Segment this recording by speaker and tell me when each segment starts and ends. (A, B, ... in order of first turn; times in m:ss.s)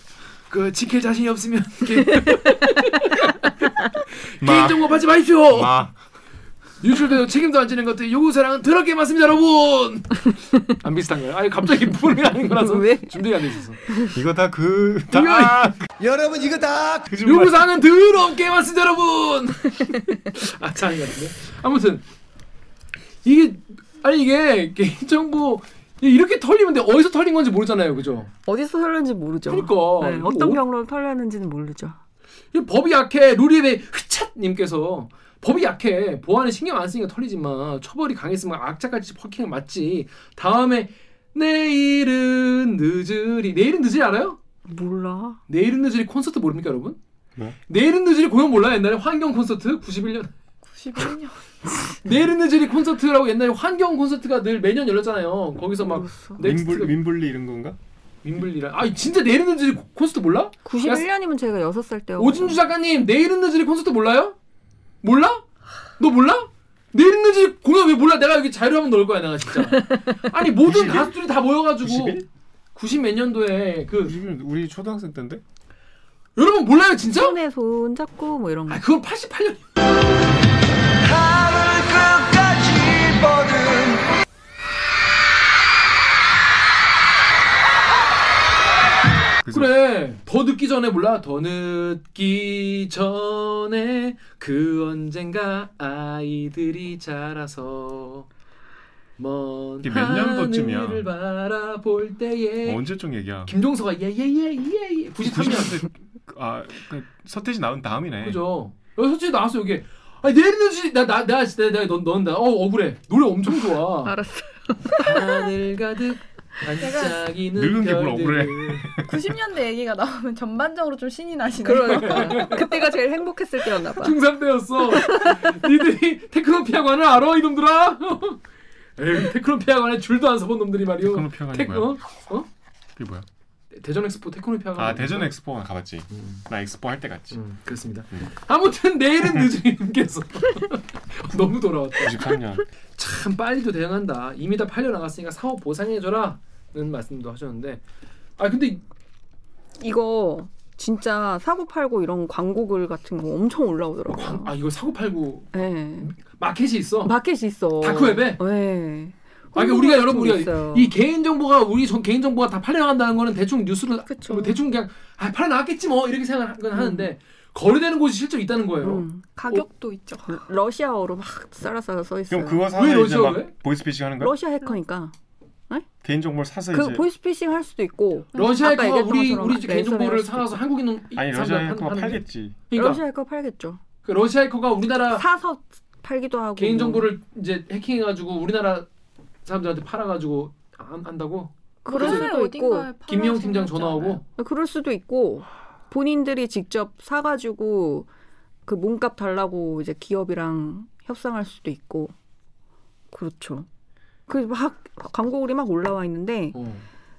0:00.5-0:05.8 A
0:04.4-0:04.9 B
0:05.5-0:06.0 B
0:06.8-0:13.8 A
0:12.5-0:13.3 C
0:13.8-0:14.2 C
0:14.1-0:15.9 B
0:15.1-0:15.7 A
0:16.0-0:17.1 D
0:17.1-0:17.6 B
0:17.2-0:22.0 A
0:23.2-0:28.3 A
0:28.4-0:32.0 C
0:29.5-0:30.6 A
0:32.5-0:44.4 A
0:44.7-0:45.4 C
0:45.5-0:47.0 A
0:47.7-0:50.3 A
0:50.7-0:51.4 E
0:52.0-0:57.0 A
0:55.8-0:56.4 C
0:56.4-0:57.8 B
0:58.2-1:01.1 A
1:00.6-1:02.6 C
1:02.2-1:04.4 A
1:05.0-1:05.4 A
1:06.0-1:12.2 A
1:09.7-1:10.2 C
1:10.6-1:11.2 B
1:11.8-1:12.2 B
1:12.7-1:14.2 A
1:14.0-1:15.4 B
1:16.4-1:17.4 A
1:17.1-1:18.8 C
1:18.7-1:19.6 A
1:21.0-1:24.1 D
1:29.4-1:29.7 B
1:29.5-1:38.3 A
1:39.2-1:42.8 A
1:39.8-1:41.1 B
1:42.6-1:43.5 B
1:43.4-1:45.8 A
1:45.2-1:48.4 B
1:48.2-1:54.1 A
1:54.0-1:55.4 C
1:55.0-1:59.0 A
1:56.8-1:57.2 E
1:57.5-1:59.2 B
1:59.1-2:02.7 E
2:01.6-2:04.2 C
2:01.7-2:02.8 A
2:03.9-2:08.4 A
2:04.9-2:05.6 C
2:09.0-2:12.5 A
2:11.0-2:11.9 B
2:13.0-2:13.2 B
2:13.7-2:15.3 A
2:14.8-2:17.4 B
2:16.1-2:16.4 A
2:17.3-2:22.4 A
2:22.0-2:22.6 B
2:23.0-2:27.8 A
2:28.4-2:28.8 A
2:29.8-2:34.5 C
2:34.1-2:37.1 A
2:35.5-2:36.1 C
2:37.0-2:40.9 C
2:37.8-2:38.4 A
2:39.5-2:49.0 A
2:44.1-2:44.6 E
2:46.7-2:47.1 C
2:48.8-2:49.7 C
2:49.5-2:50.4 E
2:50.2-2:52.7 C
2:52.3-2:54.3 B
2:52.7-2:53.5 A
2:54.2-2:55.1 C
2:56.0-2:57.0 B
2:56.7-3:00.6 C
2:58.3-3:03.0 A
3:01.1-3:02.6 B
3:02.7-3:03.8 C
3:04.0-3:05.2 A
3:05.1-3:07.1 C
3:06.6-3:08.9 A
3:09.4-3:12.3 A
3:11.8-3:12.9 C
3:11.9-3:14.2 E
3:13.1-3:14.2 A
3:14.4-3:18.1 C
3:18.6-3:22.1 C
3:23.1-3:23.7 C
3:24.3-3:26.6 C
3:26.5-3:26.8 A